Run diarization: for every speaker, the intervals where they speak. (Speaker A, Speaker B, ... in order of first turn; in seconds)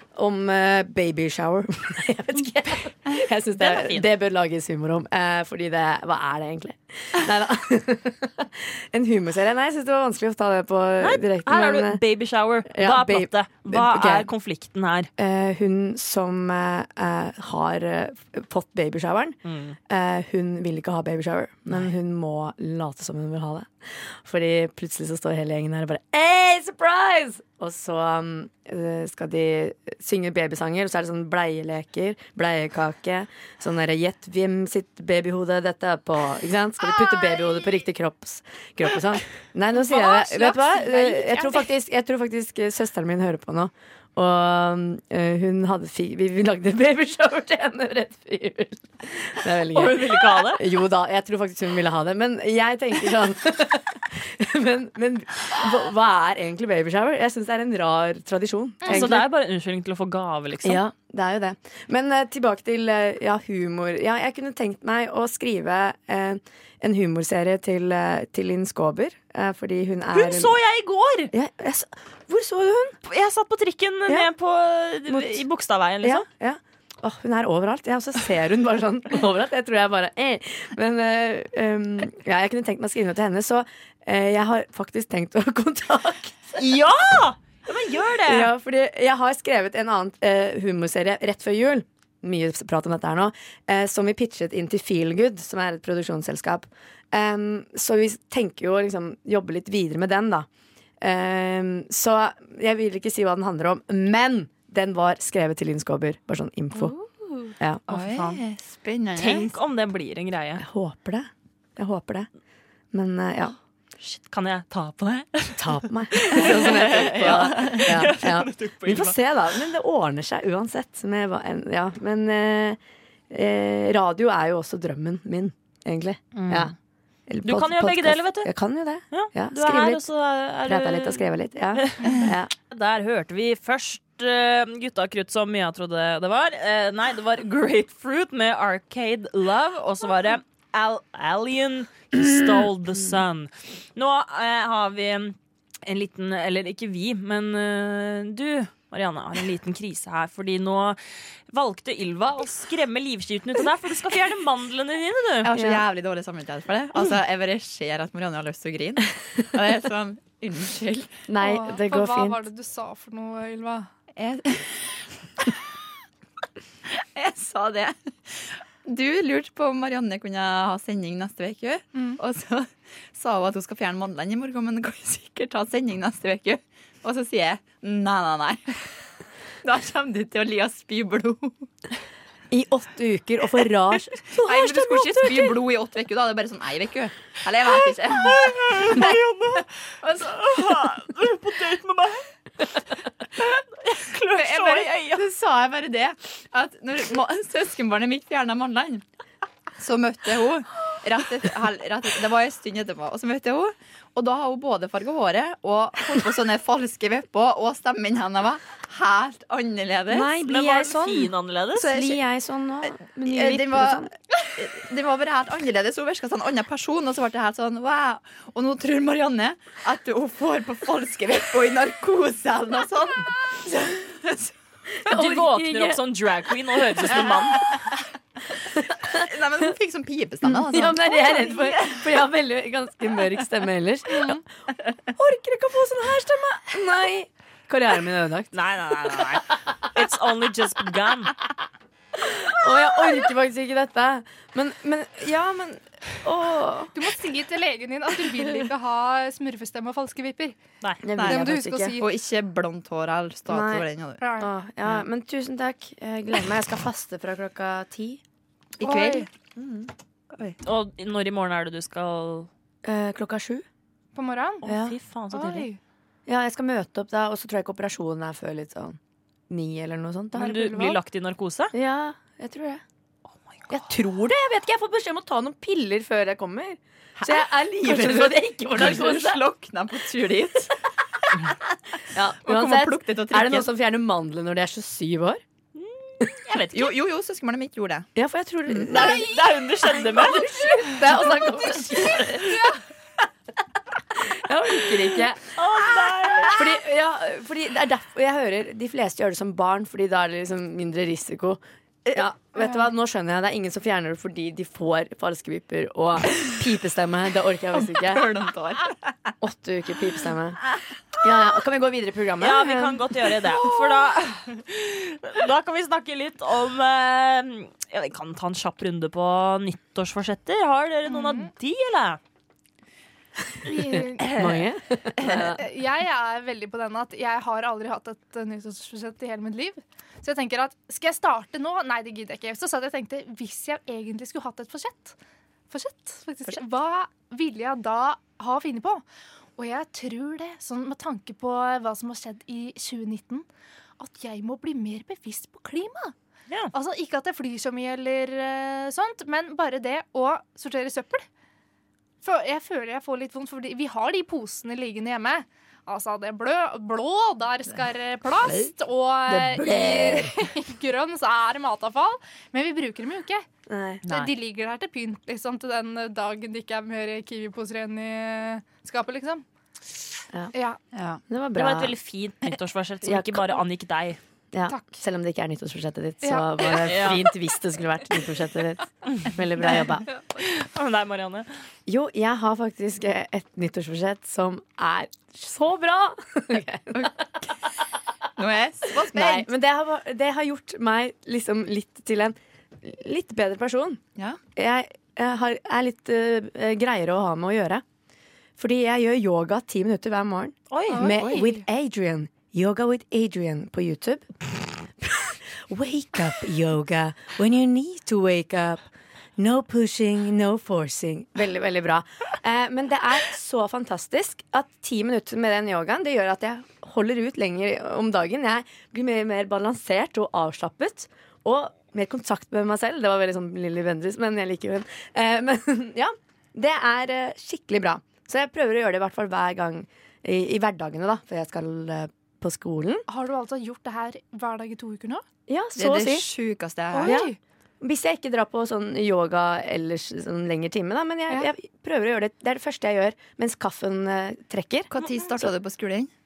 Speaker A: 0.2-12.0, 12.7-14.3, 15.2-19.4, 19.9-59.3, 60.6-70.5, 71.3-73.0, 75.1-75.4, 76.0-86.7, 88.2-100.5, 101.0-107.0, 110.6-112.3, 112.9-113.6, 115.6-126.7, 127.3-130.1, 130.6-132.5, 155.5-155.8, 161.3-162.4, 182.5-185.6, 210.1-214.1, 225.1-226.0, 227.0-227.3, 228.8-229.3, 230.4-234.4, 235.2-238.5, 242.2-246.9, 251.0-252.0, 253.5-253.8, 254.4-258.2, 262.8-263.6, 264.6-265.0, 266.3-269.0, 269.5-271.0, 271.7-272.8, 273.7-279.4, 282.1-285.4, 288.1-289.4, 289.9-292.7, 294.1-295.4, 296.5-301.6, 302.1-308.2, 309.4-310.6, 311.2-313.1, 324.2-325.6, 359.3-360.4, 363.7-364.0, 371.3-371.9, 373.0-373.6, 374.5-380.1, 381.9-387.1, 389.0-394.0, 394.6-397.8, 398.6-408.8, 409.4-433.1, 435.5-436.3, 437.0-444.9
Speaker B: 3.6-4.1, 11.0-15.1, 19.4-19.8, 49.7-50.6, 58.9-60.8, 70.1-71.3, 73.0-76.2, 86.6-88.5, 107.9-108.4, 109.2-110.6, 114.0-119.2, 126.3-126.7, 127.4-128.5, 129.1-131.2, 131.8-151.0, 151.5-155.5, 188.2-192.3, 193.4-195.3, 210.4-212.1, 225.1-227.8, 238.5-241.3, 260.6-262.5, 264.6-265.7, 270.4-271.7, 273.5-273.8, 285.8-287.0, 288.9-290.8, 295.6-296.7, 312.4-322.2, 371.5-374.2, 376.8-377.3, 379.1-381.5, 400.7-401.0
Speaker C: 36.9-37.6, 39.7-41.7, 106.8-107.5, 161.4-163.9, 171.9-172.2, 246.9-250.6, 251.2-252.1, 254.2-254.5, 258.8-259.3, 264.1-264.6, 265.3-265.8, 292.5-292.8, 321.1-321.5, 323.6-324.4, 325.3-335.2, 335.7-339.0, 339.6-343.5, 344.0-346.1, 346.7-351.3, 352.2-363.4, 364.1-369.4, 370.5-370.8, 374.7-375.0, 376.2-376.8, 400.9-401.6, 433.1-435.2, 436.9-437.4
Speaker D: 107.9-109.5, 116.3-118.0, 155.4-161.1, 164.2-165.5, 166.9-178.8, 179.6-181.7, 184.3-189.1, 194.3-199.0, 199.8-210.3, 212.9-224.5, 227.2-227.8, 229.0-232.1, 251.2-251.4, 251.9-254.2, 258.8-260.6, 277.2-280.7, 282.4-283.7, 286.7-288.1, 307.7-309.3, 364.1-364.3, 370.9-371.2, 388.4-389.5, 435.8-437.2, 444.9-446.1